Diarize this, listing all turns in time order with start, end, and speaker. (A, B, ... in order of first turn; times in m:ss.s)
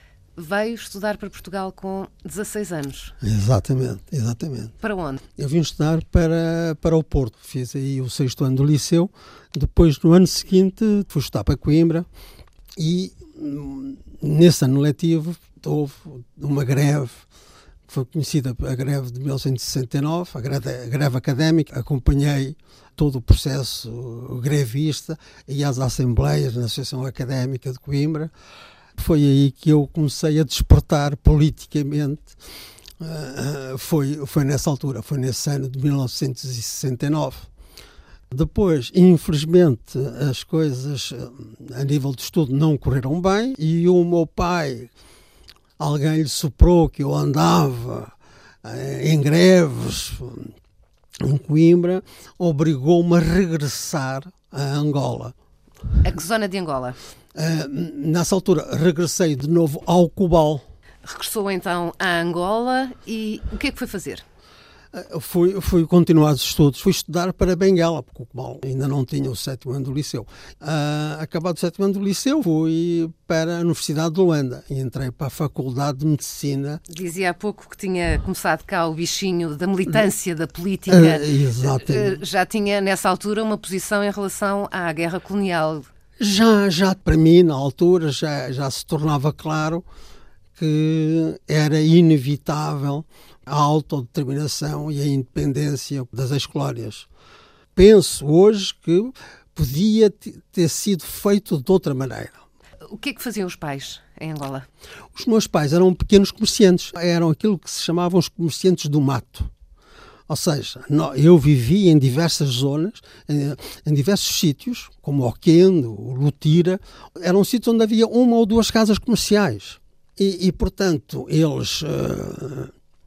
0:00.4-0:03.2 A
0:03.2-0:04.8 B
0:04.8-0:05.2 A
0:05.4-0:12.1 B
0:12.8-0:17.2 B
0:17.9-0:28.3 B
0:29.0-0:32.4 B
0:33.0-0:37.5 B
0:38.3-0:44.9 B
0:45.8-0:50.5 B
0:51.2-0:55.3 B
0:56.0-0:57.0 A
0:57.4-1:00.6 B
1:01.0-1:04.2 A
1:04.9-1:16.8 B
1:16.9-1:25.9 A
1:20.9-1:22.2 B
1:26.2-1:29.8 B
1:30.6-1:37.1 B
1:37.8-1:42.4 B
1:42.9-1:44.7 A
1:45.1-1:49.5 B
1:50.3-2:02.7 B